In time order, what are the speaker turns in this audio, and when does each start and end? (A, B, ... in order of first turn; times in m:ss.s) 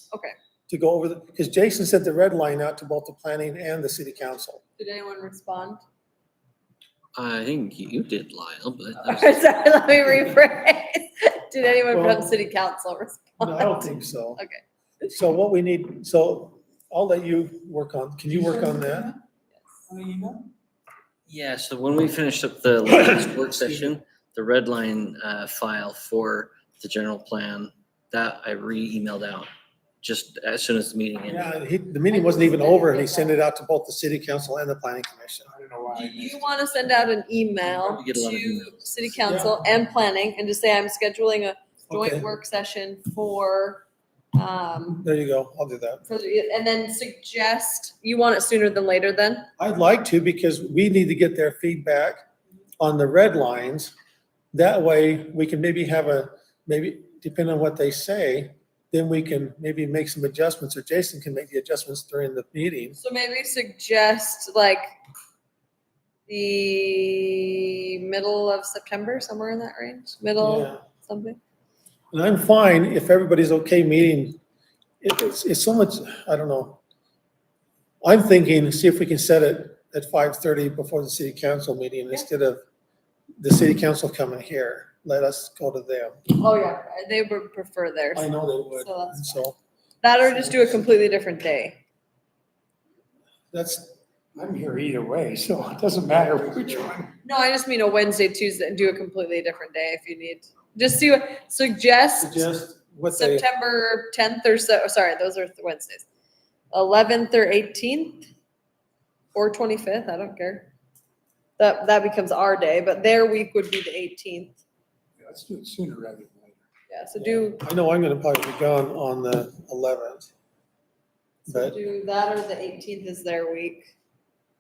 0:00.7-0:04.6 A
0:04.8-0:05.8 B
0:07.1-0:09.4 C
0:09.0-0:14.6 B
0:11.9-0:12.3 A
0:13.4-0:14.4 A
0:15.1-0:19.1 A
0:18.4-0:19.1 D
0:19.9-0:20.5 D
0:21.3-0:29.5 C
0:30.0-0:31.5 C
0:31.2-0:35.5 A
0:32.1-0:33.4 B
0:35.5-0:36.4 D
0:35.9-0:45.0 B
0:37.6-0:38.8 C
0:39.2-0:39.5 A
0:41.9-0:42.3 A
0:45.0-0:46.0 A
0:46.0-0:49.5 B
0:49.6-0:52.2 A
0:52.8-0:53.9 A
0:54.5-1:03.0 A
1:03.0-1:04.8 B
1:06.3-1:11.4 B
1:10.4-1:10.8 A
1:12.1-1:14.4 A
1:15.0-1:16.8 A
1:18.0-1:22.6 A
1:23.4-1:26.2 A
1:26.3-1:29.5 B
1:28.1-1:29.6 A
1:30.0-1:31.8 B
1:30.2-1:30.9 A
1:33.5-1:33.9 A
1:34.4-1:37.1 D
1:37.2-1:42.5 B
1:42.2-1:43.4 A
1:43.1-1:46.0 B
1:46.7-1:48.3 B
1:49.3-1:50.7 B
1:51.6-1:54.6 B
1:55.2-1:56.6 D
1:56.9-1:57.6 B
1:57.2-2:00.3 A
2:01.5-2:01.8 A
2:01.5-2:03.9 B